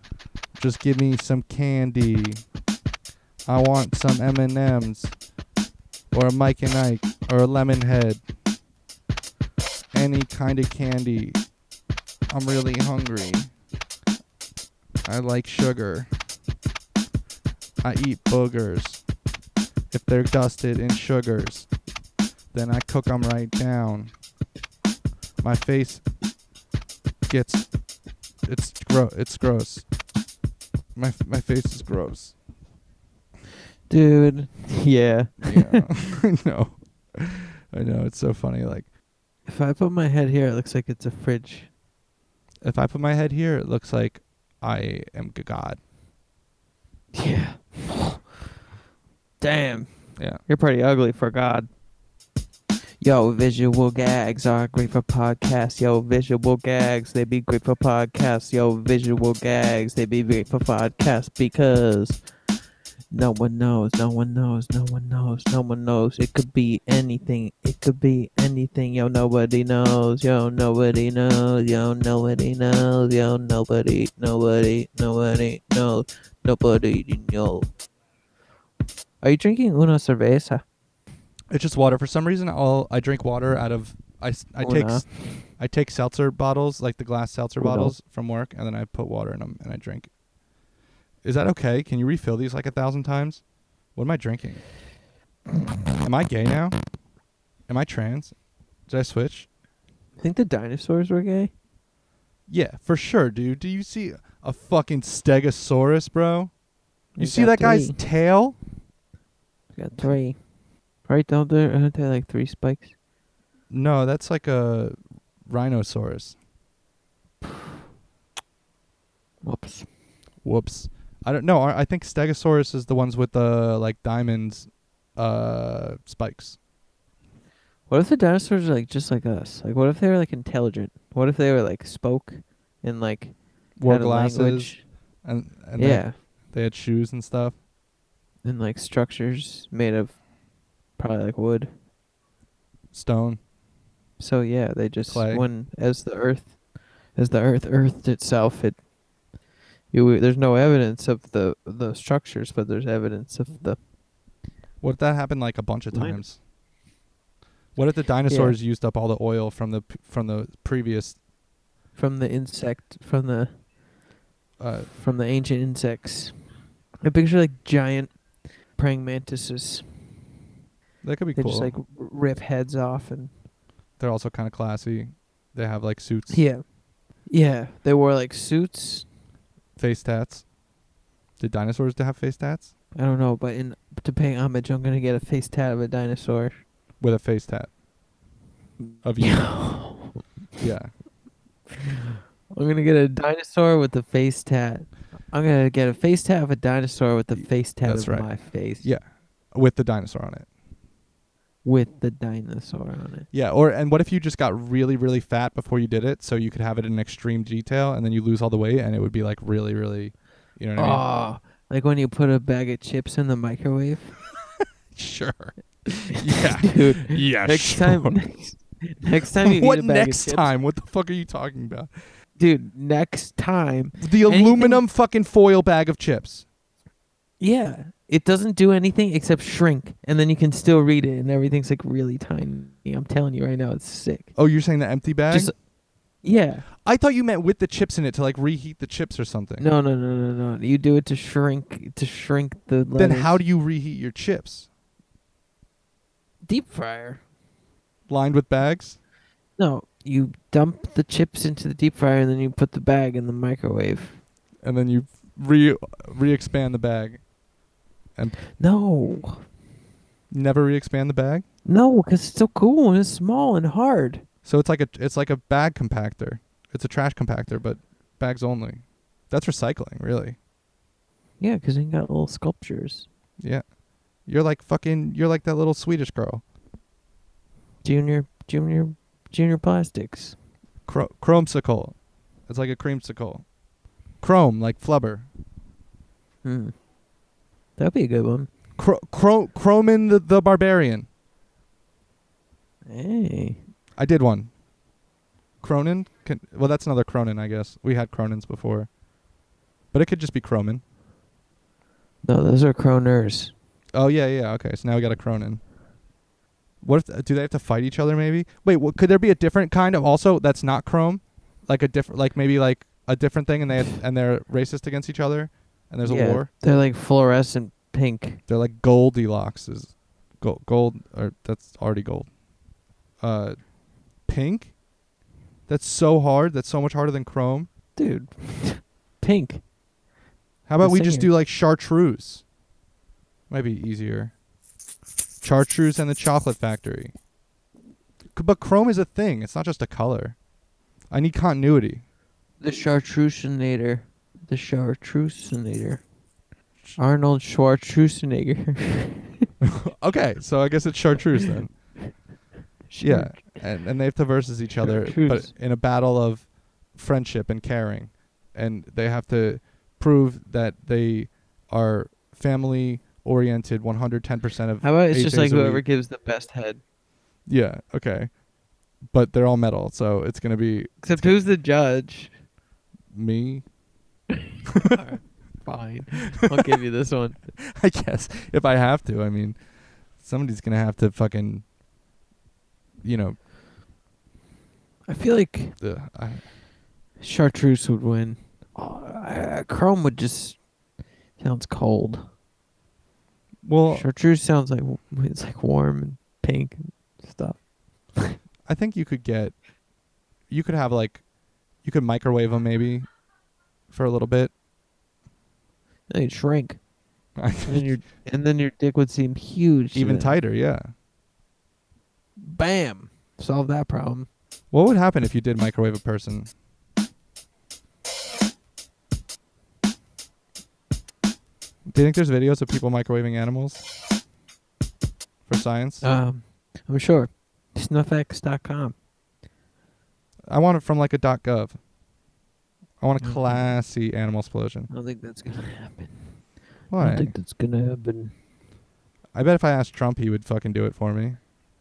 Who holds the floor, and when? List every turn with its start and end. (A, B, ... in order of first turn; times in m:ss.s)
0:00.6-0:02.4 A
0:03.5-0:05.2 A
0:06.1-0:08.2 A
0:09.9-0:11.4 A
0:12.3-0:13.5 A
0:15.0-0:16.1 A
0:17.8-0:19.0 A
0:19.9-0:21.7 A
0:22.5-0:24.1 A
0:25.4-0:26.0 A
0:27.3-0:27.7 A
0:28.4-0:29.8 A
0:31.0-0:32.4 A
0:33.9-0:35.9 B
0:35.4-0:38.9 A
0:39.5-0:41.7 B
0:42.6-0:45.8 A
0:47.1-0:48.2 B
0:49.4-0:51.7 B
0:50.2-0:50.4 A
0:53.0-1:02.2 B
1:03.1-1:17.7 B
1:19.2-1:20.6 B
1:21.5-1:30.1 A
1:24.6-1:25.4 B
1:27.6-1:27.9 B
1:31.2-1:34.8 A
1:36.0-1:36.8 A
1:37.7-1:39.5 A
1:40.2-1:41.5 B
1:42.5-1:46.5 A
1:47.2-1:48.0 B
1:47.2-1:48.6 A
1:49.7-1:50.4 B
1:51.0-1:52.9 B
1:53.7-1:56.4 A
1:59.4-1:59.9 B
2:00.4-2:06.6 A
2:07.9-2:14.9 B
2:13.8-2:17.6 A
2:15.8-2:16.2 B
2:18.4-2:20.2 B
2:20.9-2:21.7 B
2:22.9-2:23.4 A
2:24.2-2:28.8 B
2:25.1-2:25.5 A
2:29.9-2:33.8 B
2:34.8-2:36.4 A
2:35.9-2:36.2 B
2:37.8-2:41.2 A
2:38.3-2:38.6 B
2:42.0-2:43.6 B
2:44.6-2:44.9 A
2:44.9-2:46.4 B
2:47.0-2:50.2 B
2:51.0-2:51.7 A
2:51.4-2:53.3 B
2:54.0-2:56.5 A
2:56.3-2:59.1 B
2:59.8-3:00.5 A
3:01.4-3:02.7 A
3:03.0-3:06.6 B
3:07.0-3:07.7 A
3:08.8-3:10.2 B
3:09.0-3:10.0 A
3:10.6-3:11.0 A
3:12.5-3:18.9 B
3:17.3-3:20.5 A
3:21.6-3:23.3 B
3:23.3-3:31.1 A
3:30.8-3:34.2 B
3:34.9-3:38.2 A
3:36.2-3:40.5 B
3:39.4-3:41.9 A
3:42.4-3:44.8 B
3:44.0-3:46.4 A
3:47.4-3:54.4 B
3:54.4-3:55.5 A
3:55.3-3:55.6 B
3:56.2-3:56.7 B
3:56.8-3:59.7 A
3:59.6-4:03.4 B
4:03.0-4:04.7 A
4:06.4-4:07.2 B
4:08.1-4:09.0 A
4:09.6-4:14.2 B
4:14.6-4:17.2 A
4:18.6-4:19.4 B
4:20.3-4:21.4 A
4:21.6-4:24.2 B
4:24.4-4:30.4 A
4:31.4-4:33.1 B
4:33.4-4:33.6 A
4:34.2-4:36.4 A
4:37.8-4:40.4 B
4:40.9-4:43.5 A
4:44.2-4:45.3 A
4:46.4-4:46.8 B
4:47.8-4:48.5 B
4:48.8-4:51.1 A
4:52.9-4:53.6 B
4:54.0-4:54.5 A
4:55.6-4:58.9 A
4:59.9-5:00.8 A
5:02.2-5:03.5 B
5:03.9-5:05.6 A
5:06.8-5:16.5 A
5:16.0-5:18.4 B
5:18.5-5:22.4 A
5:23.2-5:24.8 A
5:25.7-5:27.7 A
5:28.0-5:29.6 B
5:30.7-5:32.5 A
5:30.8-5:31.3 B
5:33.5-5:34.3 A
5:35.4-5:37.1 A
5:38.3-5:40.4 A
5:41.1-5:42.0 A
5:42.6-5:46.1 B
5:47.0-5:49.5 B
5:49.6-5:52.2 A
5:52.9-5:53.6 B
5:53.0-6:05.8 A
5:54.8-5:55.5 B
6:04.8-6:06.8 B
6:07.5-6:08.4 A
6:09.0-6:11.4 A
6:11.0-6:12.3 B
6:13.1-6:13.7 A
6:14.9-6:17.4 B
6:17.6-6:21.6 A
6:23.0-6:23.4 A
6:25.1-6:25.8 B
6:25.8-6:26.5 A
6:27.2-6:30.7 B
6:31.4-6:32.3 B
6:33.6-6:34.1 A
6:33.9-6:38.4 B
6:38.6-6:39.6 A
6:40.5-6:41.2 A
6:41.8-6:43.1 A
6:43.9-6:44.5 A
6:46.1-6:46.8 B
6:47.4-6:47.9 A
6:47.6-6:50.4 B
6:49.9-6:50.9 A
6:52.4-6:54.3 B
6:54.7-6:56.5 A
7:01.9-7:03.8 A
7:05.5-7:06.1 A
7:06.0-7:09.0 B
7:10.5-7:11.8 A
7:13.0-7:14.9 A
7:13.2-7:13.7 B
7:14.9-7:18.3 B
7:16.9-7:17.3 A
7:19.3-7:21.4 A